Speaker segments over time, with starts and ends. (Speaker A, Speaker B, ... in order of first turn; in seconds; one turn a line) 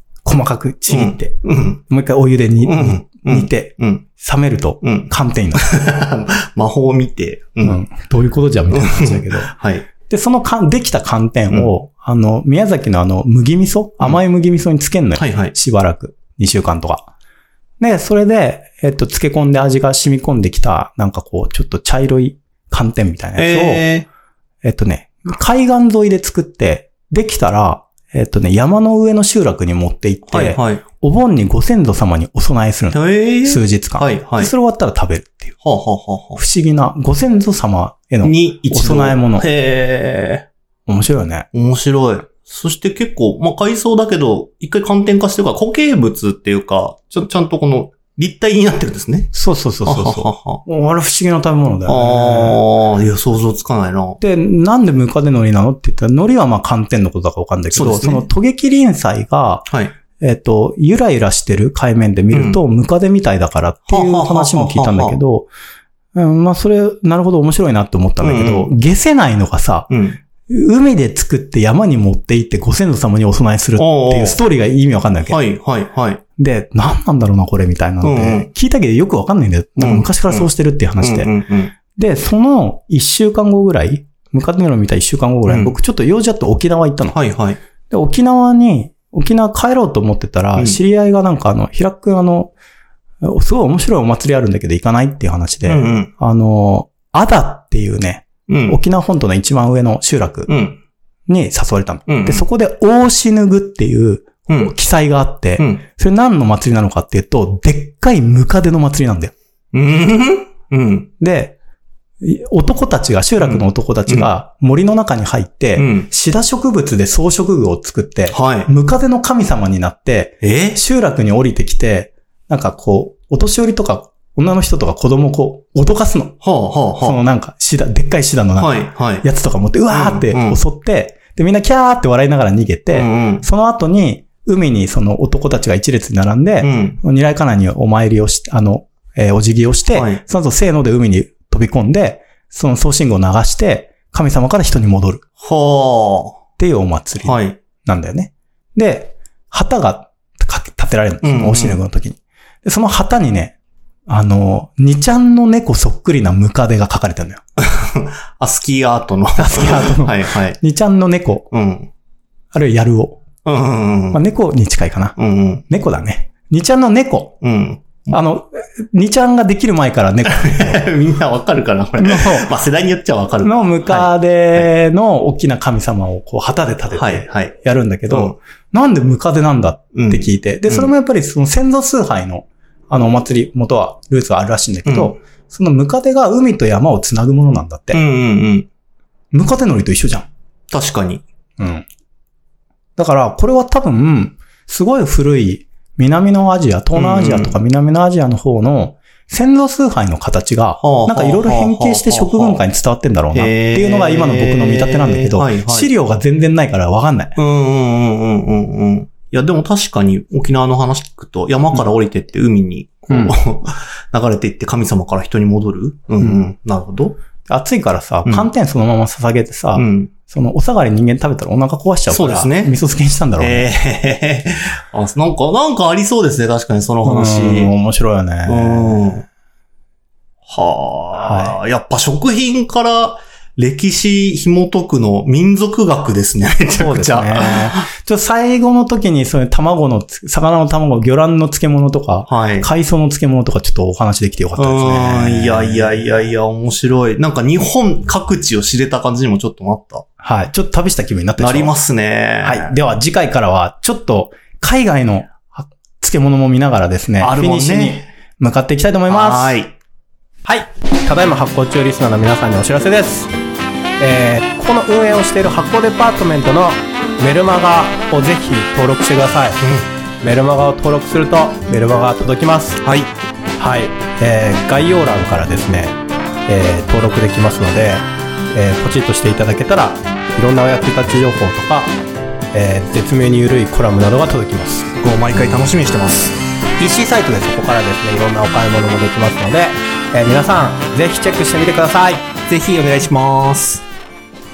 Speaker A: 0.2-1.4
Speaker B: 0.9-1.8
Speaker A: 1.9-5.7
Speaker B: 2.6-4.0
Speaker B: 4.8-7.8
Speaker A: 7.6-9.5
Speaker B: 8.7-9.9
Speaker A: 10.1-17.1
Speaker B: 15.2-15.5
Speaker A: 17.8-23.9
Speaker B: 23.4-24.1
Speaker A: 24.6-35.5
Speaker B: 30.3-30.8
Speaker B: 32.9-34.5
Speaker B: 35.6-36.4
Speaker A: 36.4-39.5
Speaker B: 38.2-40.5
Speaker A: 40.9-41.5
Speaker B: 41.5-49.3
Speaker A: 49.3-52.6
Speaker B: 49.9-50.6
Speaker B: 51.9-54.2
Speaker A: 54.2-59.7
Speaker B: 57.7-58.3
Speaker B: 59.7-59.9
Speaker A: 60.2-65.5
Speaker B: 62.3-62.6
Speaker B: 63.9-65.2
Speaker A: 66.2-69.9
Speaker B: 68.2-68.7
Speaker B: 69.9-70.2
Speaker A: 70.5-75.4
Speaker B: 73.8-74.4
Speaker B: 75.2-76.2
Speaker A: 76.4-81.3
Speaker B: 78.0-78.5
Speaker B: 79.8-80.5
Speaker B: 81.0-81.7
Speaker A: 82.0-87.2
Speaker B: 85.5-85.7
Speaker B: 87.1-87.6
Speaker A: 87.9-92.5
Speaker A: 93.2-100.5
Speaker B: 95.7-96.1
Speaker B: 98.5-98.8
Speaker B: 100.5-100.8
Speaker A: 101.3-109.3
Speaker B: 102.1-102.5
Speaker B: 109.7-111.1
Speaker A: 111.2-111.5
Speaker A: 112.2-126.4
Speaker B: 113.4-114.3
Speaker B: 115.8-116.1
Speaker B: 118.3-118.7
Speaker B: 120.4-120.8
Speaker B: 126.4-127.2
Speaker A: 127.0-145.2
Speaker B: 128.6-129.3
Speaker B: 129.9-130.6
Speaker B: 132.9-133.5
Speaker B: 136.6-137.0
Speaker B: 139.9-140.2
Speaker B: 145.4-146.4
Speaker A: 146.6-153.6
Speaker B: 147.2-147.6
Speaker B: 151.2-151.8
Speaker A: 154.1-157.4
Speaker B: 157.6-160.6
Speaker A: 159.4-161.5
Speaker B: 161.5-161.9
Speaker A: 162.5-163.2
Speaker B: 163.4-164.2
Speaker A: 164.1-165.2
Speaker B: 165.2-165.6
Speaker A: 165.7-167.4
Speaker B: 167.4-168.2
Speaker A: 168.1-170.8
Speaker B: 170.3-174.7
Speaker A: 172.0-172.5
Speaker A: 173.4-188.0
Speaker B: 176.9-177.5
Speaker B: 178.1-178.3
Speaker B: 179.9-180.9
Speaker B: 184.9-185.2
Speaker B: 187.9-188.7
Speaker A: 189.3-190.3
Speaker B: 190.7-191.2
Speaker A: 191.6-191.8
Speaker A: 193.0-207.3
Speaker B: 196.9-197.6
Speaker B: 200.8-202.7
Speaker B: 203.3-205.9
Speaker B: 207.4-217.2
Speaker A: 217.5-223.7
Speaker B: 219.8-220.1
Speaker B: 222.1-222.8
Speaker B: 223.4-227.7
Speaker A: 227.0-229.2
Speaker B: 228.5-229.2
Speaker B: 230.5-237.9
Speaker A: 231.2-231.6
Speaker A: 236.8-246.1
Speaker B: 242.3-242.7
Speaker B: 244.6-250.0
Speaker A: 250.2-251.7
Speaker B: 251.4-252.7
Speaker A: 252.4-259.6
Speaker B: 257.2-258.1
Speaker B: 259.1-259.8
Speaker A: 260.5-263.3
Speaker A: 264.0-269.6
Speaker B: 269.6-269.9
Speaker A: 270.2-272.9
Speaker B: 272.8-273.1
Speaker A: 273.6-276.0
Speaker A: 276.5-281.9
Speaker A: 282.5-284.9
Speaker B: 285.0-286.4
Speaker A: 286.8-292.3
Speaker B: 292.5-293.8